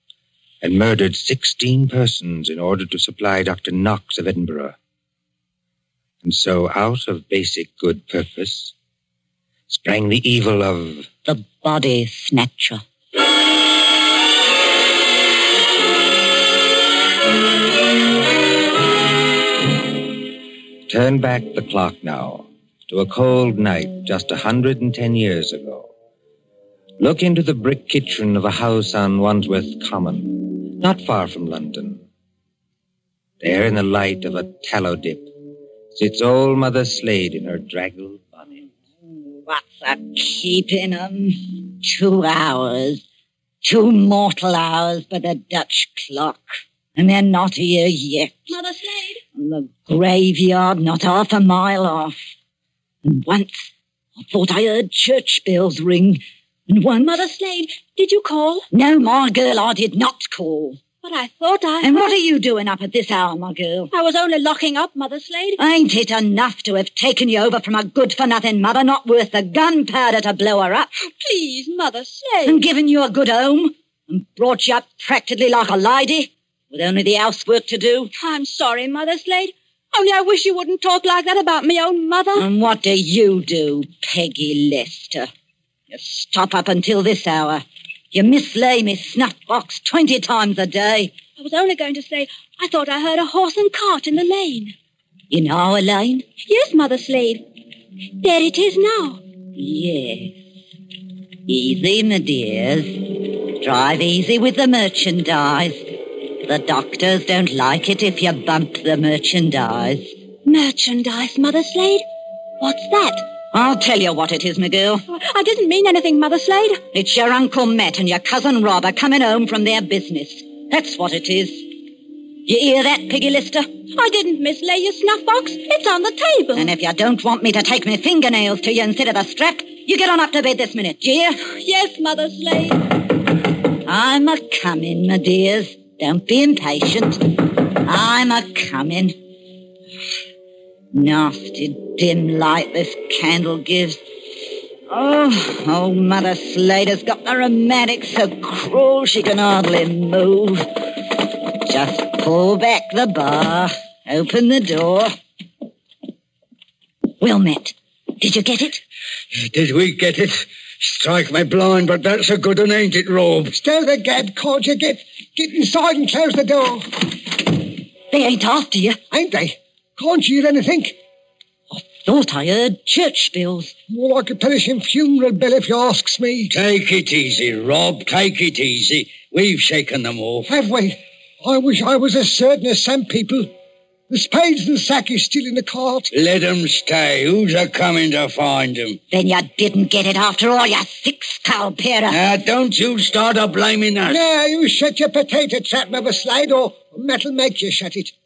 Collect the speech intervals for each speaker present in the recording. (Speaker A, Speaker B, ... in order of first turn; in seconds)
Speaker A: 0.6-4.8, 6.2-8.7, 9.7-11.1, 20.9-25.9, 27.0-32.0, 33.4-35.3, 35.9-38.6
Speaker B: 11.2-12.8, 39.5-43.0, 43.6-48.6, 49.4-52.2, 53.0-57.2, 58.7-60.8, 61.8-63.9, 65.6-70.9, 72.5-78.1, 82.3-85.3, 85.9-91.2, 95.3-96.3, 99.6-100.4, 101.5-110.2, 112.6-115.0, 116.9-121.7, 122.5-123.7, 126.6-131.4, 133.9-137.2, 137.8-139.2, 140.9-144.0, 144.9-151.0, 151.7-155.1, 157.2-158.8, 168.1-169.0, 171.7-173.7, 189.1-192.2
Speaker C: 48.5-49.2, 56.9-58.7, 61.0-62.2, 63.9-65.6, 71.0-72.6, 78.2-82.5, 91.2-94.7, 96.4-97.4, 98.2-99.2, 110.4-112.0, 112.6-113.0, 115.1-116.8, 123.9-126.7, 131.4-132.8
Speaker D: 159.3-163.5, 176.5-180.5, 186.1-189.0, 192.1-194.2
Speaker E: 163.5-166.9, 169.1-171.0, 173.9-176.6, 180.5-183.5, 184.1-186.1, 194.1-198.1